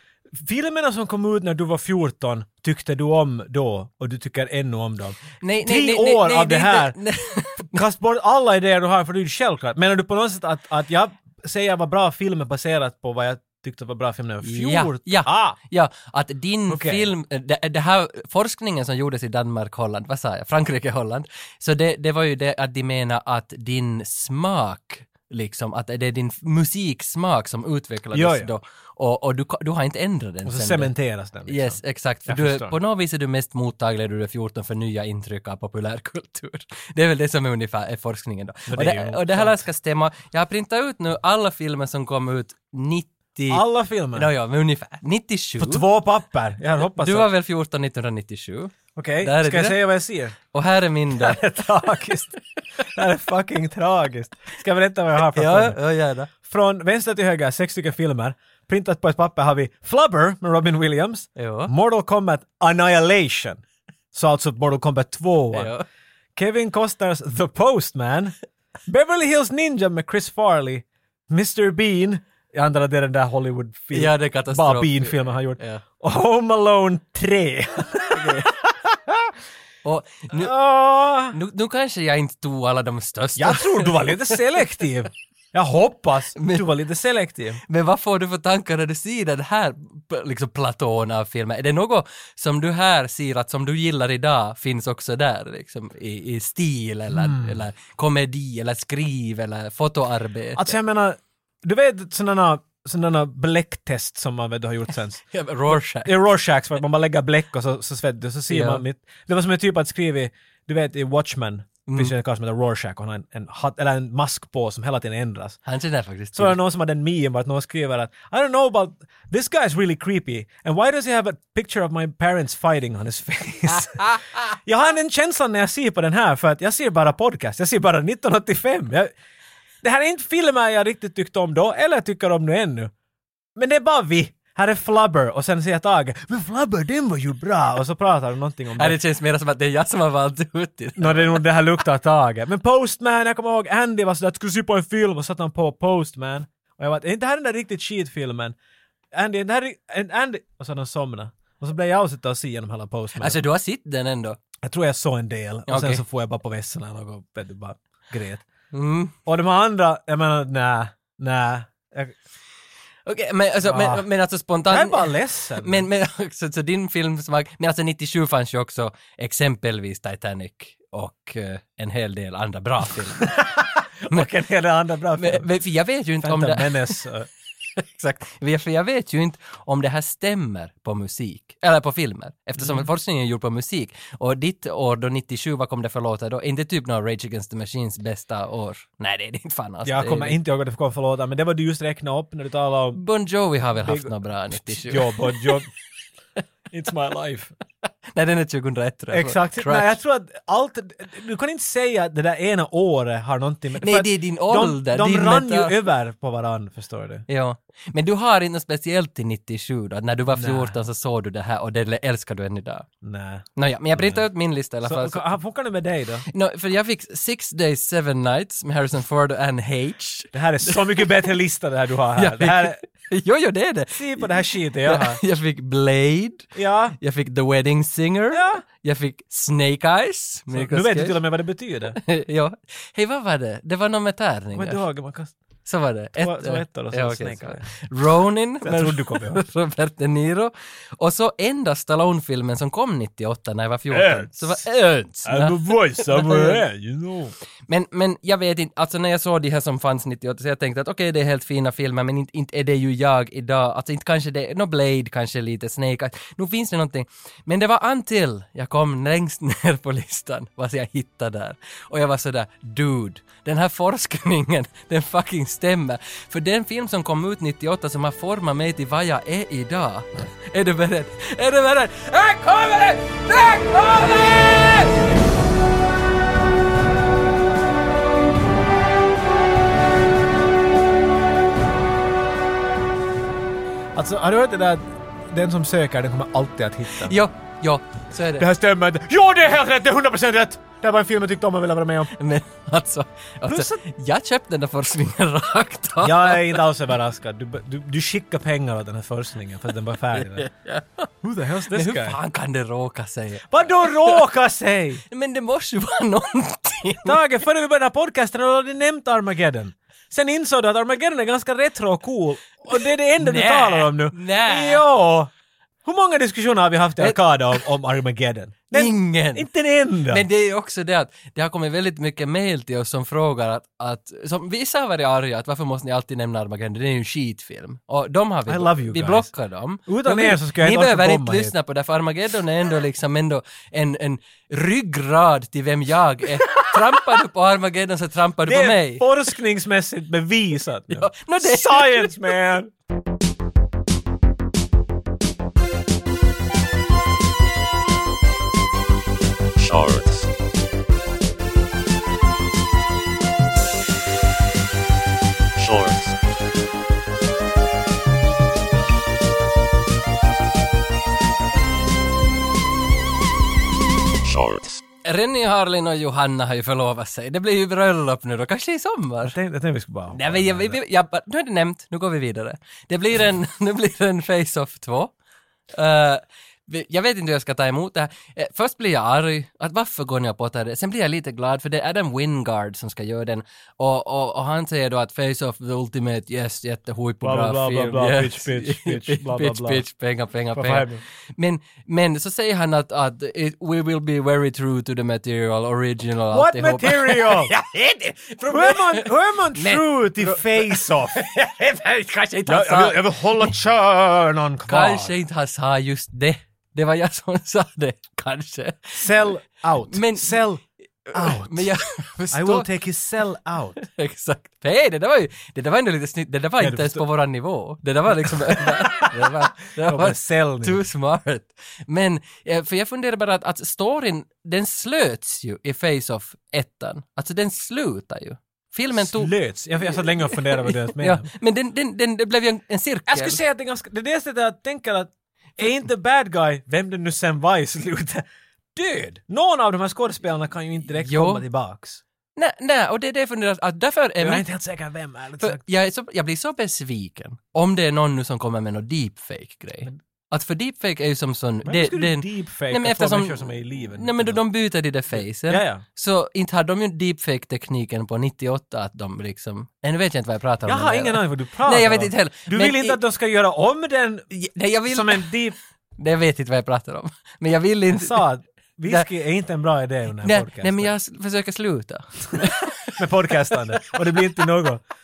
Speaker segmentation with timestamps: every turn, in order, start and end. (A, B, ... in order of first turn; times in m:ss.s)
0:00.3-0:07.0 A
0:05.4-0:07.8 B
0:07.7-0:15.6 A
0:14.4-0:30.9 B
0:16.7-0:17.0 A
0:28.1-0:28.5 A
0:30.4-0:32.7 A
0:31.5-0:45.8 B
0:38.7-0:39.6 A
0:43.5-0:44.3 A
0:45.6-0:47.3 A
0:46.9-0:49.8 B
0:49.0-0:50.3 A
0:50.5-0:51.4 B
0:51.2-0:55.8 A
0:55.3-0:56.3 B
0:56.4-1:05.7 A
1:01.4-1:01.7 B
1:05.5-1:05.8 B
1:06.4-1:08.3 A
1:08.9-1:19.3 A
1:13.9-1:15.8 B
1:18.1-1:18.5 B
1:19.8-1:20.5 B
1:20.3-1:21.4 A
1:21.3-1:24.4 B
1:23.4-1:27.6 A
1:26.4-1:26.6 B
1:27.7-1:40.8 B
1:37.1-1:37.6 A
1:40.6-1:45.2 A
1:45.3-1:46.1 B
1:46.0-1:55.6 A
1:48.5-1:48.8 B
1:51.9-1:52.1 B
1:55.6-1:56.6 B
1:56.3-2:09.1 A
2:09.8-2:12.9 A
2:13.6-2:19.0 A
2:18.8-2:21.4 B
2:21.0-2:28.6 A
2:29.1-2:33.4 A
2:33.2-2:34.4 B
2:34.6-2:38.4 A
2:35.7-2:36.0 B
2:38.7-2:39.1 B
2:39.2-2:42.2 A
2:43.0-2:53.3 B
2:43.6-2:44.0 A
2:44.7-2:45.8 A
2:53.2-2:55.5 A
2:55.2-2:57.0 B
2:56.2-2:57.3 A
2:57.8-3:10.4 B
3:02.6-3:02.9 A
3:09.8-3:13.0 A
3:12.9-3:15.6 B
3:13.8-3:15.7 A
3:16.7-3:17.5 A
3:17.8-3:20.0 B
3:19.1-3:27.2 A
3:23.8-3:25.8 B
3:27.3-3:32.9 B
3:30.3-3:30.8 A
3:33.0-3:34.2 A
3:33.6-3:35.3 B
3:34.8-3:36.2 A
3:36.3-3:41.3 B
3:40.3-3:42.8 A
3:42.2-3:51.2 B
3:43.9-3:45.2 A
3:46.5-3:47.0 A
3:48.3-3:48.6 A
3:50.5-3:52.0 A
3:51.9-3:54.8 B
3:54.5-3:55.4 A
3:55.6-4:06.6 B
3:56.2-3:57.6 A
3:58.6-3:59.4 A
4:03.9-4:04.6 A
4:05.2-4:07.3 A
4:07.7-4:35.0 B
4:43.9-4:47.2 A
4:47.0-4:48.5 B
4:48.4-4:52.1 A
4:52.1-4:56.6 B
4:53.4-4:53.8 A
4:56.0-5:00.5 A
5:00.1-5:01.1 B
5:01.2-5:02.2 A
5:01.7-5:04.2 B
5:03.5-5:05.0 A
5:05.1-5:07.2 B
5:07.0-5:15.3 A
5:13.2-5:14.8 B
5:15.8-5:20.2 A
5:17.0-5:17.6 B
5:18.7-5:19.5 B
5:20.1-5:39.1 B
5:28.5-5:29.3 A
5:29.9-5:31.5 A
5:38.4-5:42.7 A
5:40.9-5:42.3 B
5:49.6-5:50.3 C
5:55.6-5:56.2 C
6:04.2-6:04.8 C
6:05.0-6:09.4 B
6:09.2-6:10.8 A
6:10.1-6:15.1 B
6:15.7-6:43.5 B
6:27.2-6:29.8 A
6:30.5-6:31.0 A
6:36.3-6:37.5 A
6:38.5-6:41.2 A
6:42.5-6:45.1 A
6:44.7-6:49.2 B
6:48.9-6:51.7 A
6:49.9-6:50.4 B
6:51.1-6:52.7 B
6:52.3-6:53.8 A
6:53.8-7:09.3 B
6:56.6-6:57.0 A
6:58.3-7:00.8 A
7:08.9-7:11.3 A
7:09.8-7:13.4 B
7:13.1-7:22.0 A
7:21.0-7:21.4 B
7:22.4-7:24.4 B
7:24.2-7:25.6 A
7:25.4-7:43.0 B
7:31.6-7:34.4 A
7:35.1-7:35.8 A
7:40.6-7:44.3 A
7:44.3-7:45.3 B
7:44.9-7:45.5 A
7:46.0-7:48.2 B
7:47.9-7:50.9 A
7:50.2-7:54.2 B
7:53.0-7:54.8 A